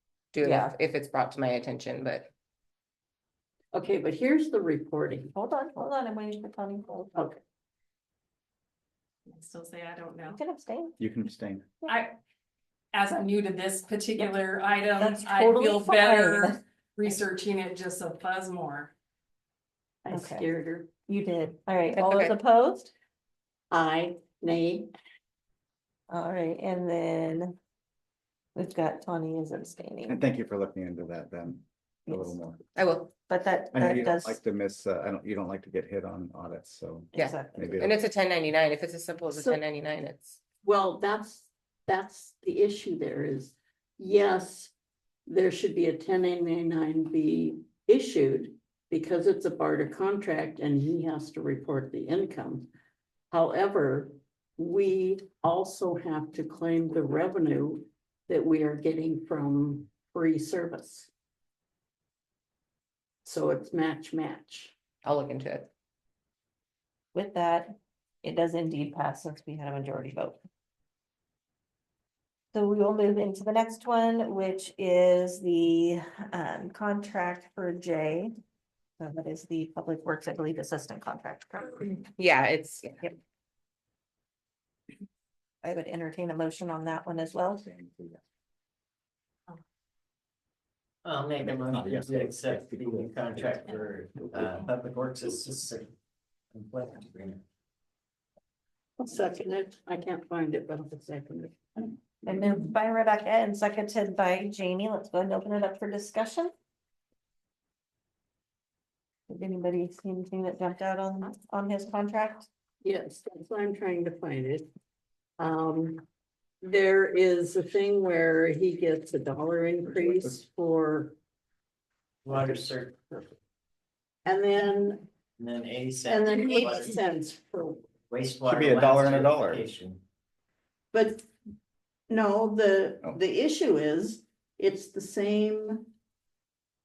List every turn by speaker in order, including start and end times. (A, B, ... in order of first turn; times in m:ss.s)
0:00.3-0:02.3 A
0:00.4-0:00.8 B
0:03.7-0:05.3 C
0:05.3-0:07.3 B
0:09.3-0:10.4 D
0:10.3-0:10.9 B
0:11.0-0:11.7 E
0:11.9-0:12.1 D
0:12.9-0:18.9 D
0:14.9-0:16.6 B
0:20.0-0:20.9 C
0:20.1-0:20.5 B
0:21.1-0:22.9 B
0:21.9-0:22.4 A
0:23.7-0:24.9 C
0:26.1-0:27.6 B
0:28.5-0:30.2 B
0:30.1-0:32.6 E
0:32.1-0:32.4 B
0:32.8-0:33.1 A
0:33.3-0:34.4 B
0:33.7-0:38.0 E
0:37.1-0:37.8 B
0:37.1-0:40.4 A
0:39.3-0:39.6 C
0:40.6-0:44.7 C
0:45.3-0:52.7 C
0:53.3-1:01.1 C
1:03.2-1:04.7 C
1:05.0-1:05.7 A
1:07.1-1:10.4 B
1:12.5-1:18.3 B
1:19.0-1:22.1 B
1:22.2-1:23.1 A
1:25.6-1:27.8 B
1:31.0-1:35.9 F
1:31.4-1:33.6 E
1:36.5-1:37.4 F
1:39.0-1:42.0 C
1:42.2-1:46.5 B
1:49.3-1:52.5 B
1:52.8-1:54.7 C
1:55.4-1:56.0 C
1:56.6-2:01.2 C
2:02.2-2:03.3 F
2:04.2-2:05.0 C
2:05.4-2:07.0 F
2:06.0-2:07.8 C
2:08.1-2:10.0 F
2:08.4-2:09.6 E
2:10.9-2:11.3 C
2:12.1-2:15.9 C